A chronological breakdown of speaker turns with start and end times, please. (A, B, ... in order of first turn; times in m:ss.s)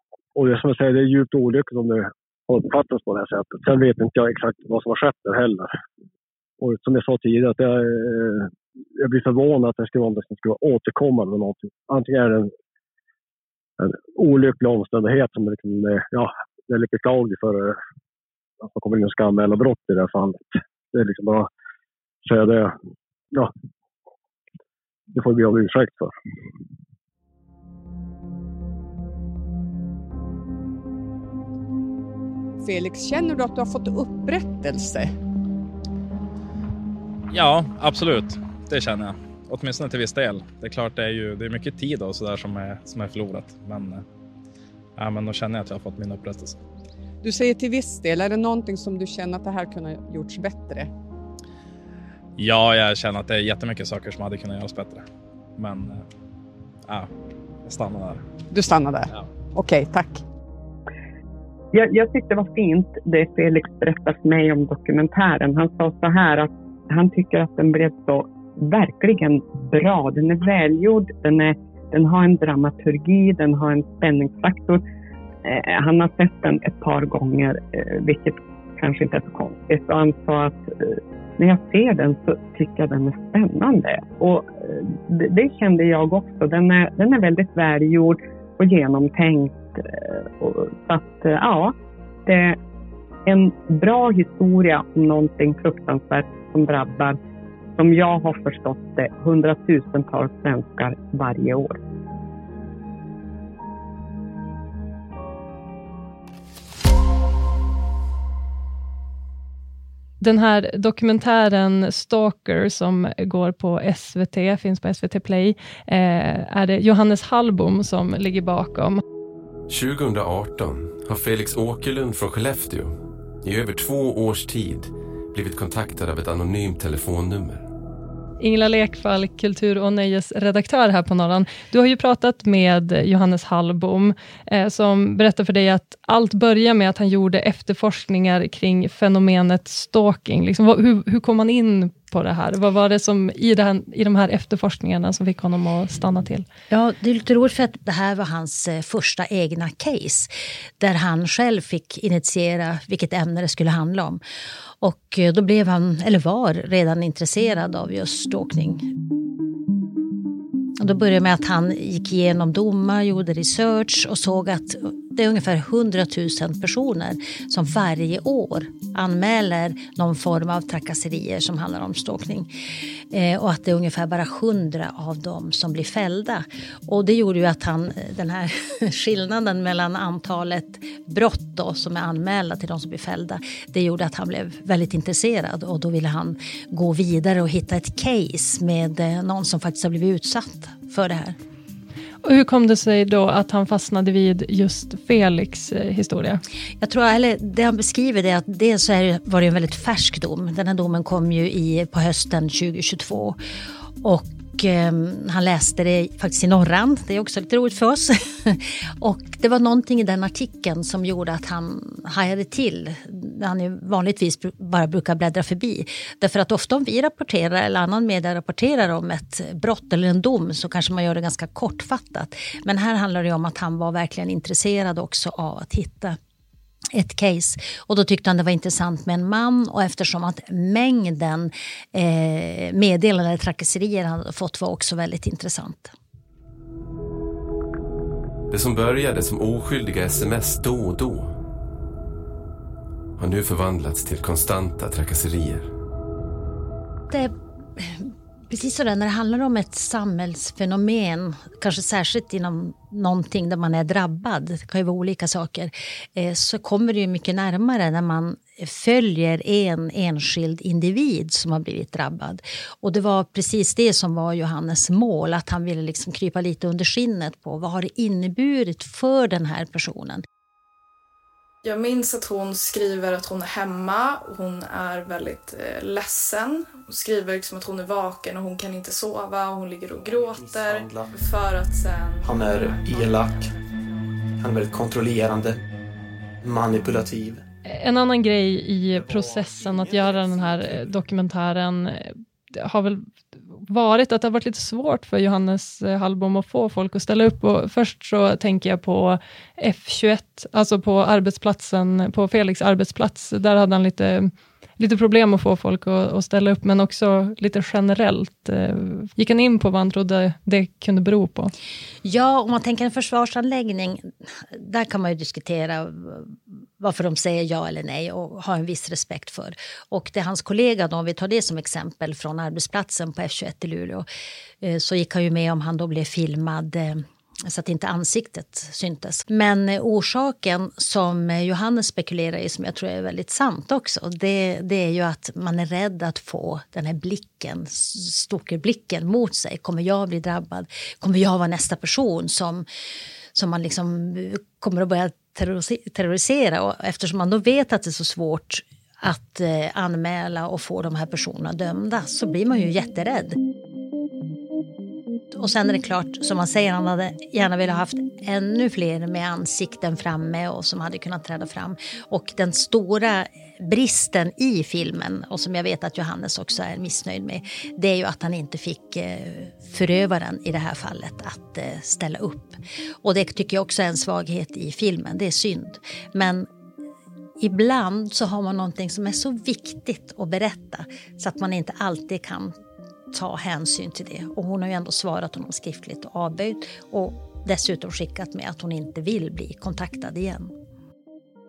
0:00.3-0:05.7 A
0:06.6-0:12.5 A
0:13.8-0:17.8 A
0:18.6-0:21.5 A
0:22.2-0:22.7 A
0:25.1-0:26.1 A
0:32.6-0:35.1 B
0:37.3-0:44.0 C
0:45.0-0:46.6 C
0:47.2-0:50.9 B
0:52.4-0:55.0 C
0:55.6-0:56.0 C
0:57.6-0:58.2 C
0:58.5-1:00.2 B
1:01.7-1:14.8 D
1:15.4-1:31.7 D
1:32.2-1:32.6 D
1:33.2-1:37.2 D
1:37.8-1:41.8 D
1:50.2-1:59.0 E
1:59.7-2:07.7 F
2:08.4-2:26.4 E
2:26.7-2:34.2 G
2:34.8-2:38.8 G
2:40.8-2:52.5 G
2:53.1-3:11.4 G
3:12.2-3:16.4 E
3:16.8-3:23.4 G
3:24.0-3:46.2 G
3:46.9-3:55.9 G
3:58.5-4:01.3 F
4:03.2-4:05.7 F
4:07.1-4:30.2 G
4:31.6-4:43.1 H
4:40.0-4:41.1 I
4:42.2-4:43.5 I
4:44.4-4:45.6 I
4:46.4-4:47.4 I
4:47.6-4:53.1 E
4:53.7-5:11.5 E
5:12.0-5:24.1 G
5:24.6-5:42.6 G
5:43.3-5:53.4 G
5:55.3-6:16.5 G
6:17.4-6:22.5 G
6:23.1-6:30.5 G